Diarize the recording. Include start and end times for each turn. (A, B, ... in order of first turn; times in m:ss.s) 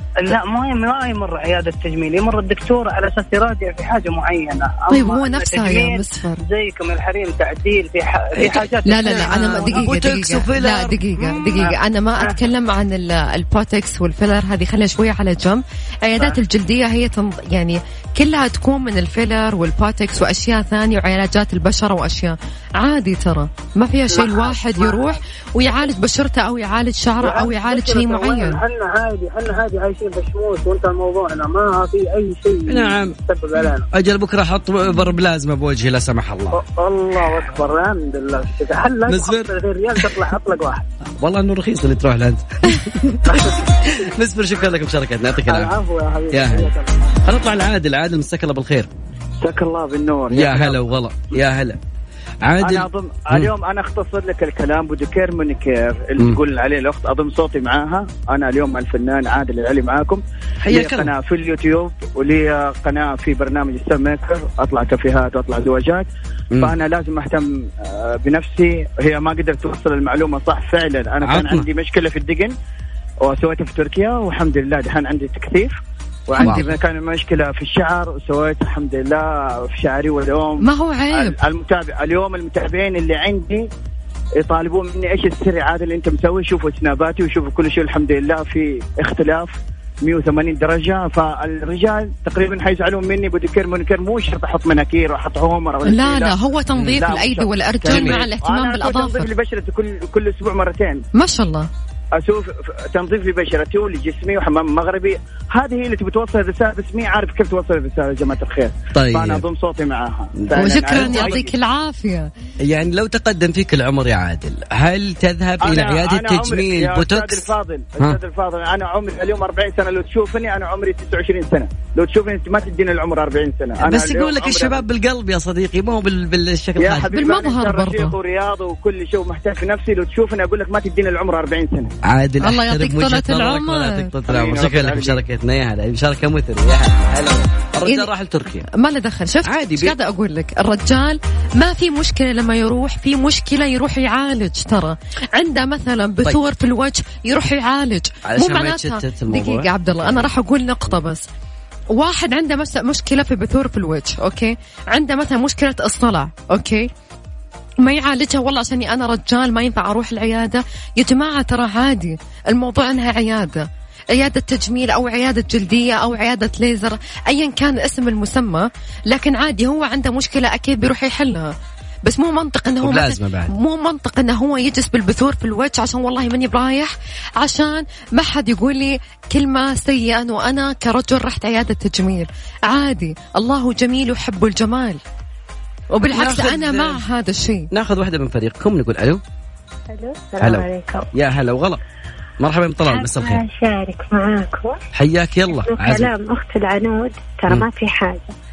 0:00.2-0:09.9 A
0:04.9-0:06.4 B
0:08.4-0:11.4 C
0:08.8-0:28.6 B
0:11.5-0:12.4 A
0:24.1-0:25.2 A
0:27.2-0:33.9 A
0:32.7-0:33.2 C
0:33.9-0:36.6 C
0:36.5-0:40.9 A
0:39.1-0:39.5 C
0:41.1-0:45.7 C
0:43.2-0:44.1 A
0:45.4-0:46.9 A
0:46.3-0:46.7 C
0:47.2-0:48.9 C
0:49.4-0:50.8 D
0:50.3-0:51.8 C
0:52.4-0:53.5 C
0:52.6-1:06.1 D
1:00.6-1:01.1 C
1:06.6-1:12.5 D
1:11.2-1:11.6 C
1:13.2-1:15.7 D
1:16.3-1:20.6 D
1:16.4-1:16.7 C
1:16.4-1:16.6 B
1:20.6-1:21.3 B
1:21.2-1:23.6 D
1:24.4-1:36.4 D
1:35.9-1:39.3 B
1:36.8-1:37.0 C
1:36.9-1:41.0 D
1:37.8-1:38.2 C
1:41.1-1:41.7 B
1:42.2-1:51.5 D
1:48.9-1:49.4 C
1:50.4-1:51.5 C
1:50.6-1:52.3 B
1:52.6-1:58.2 C
1:55.6-2:04.8 D
2:03.8-2:07.2 C
2:06.8-2:11.9 D
2:07.1-2:08.1 B
2:12.0-2:18.6 C
2:12.4-2:14.1 B
2:14.2-2:15.2 D
2:17.8-2:18.1 B
2:18.7-2:31.3 B
2:19.4-2:19.9 C
2:28.2-2:30.3 C
2:31.9-2:36.9 B
2:37.8-2:51.5 B
2:52.0-3:05.0 B
2:52.8-2:53.5 C
3:05.9-3:07.7 B
3:06.1-3:07.0 C
3:07.7-3:09.2 C
3:09.9-3:11.1 E
3:10.4-3:11.8 C
3:12.4-3:13.4 C
3:12.8-3:14.8 E
3:14.9-3:16.1 C
3:15.5-3:18.3 E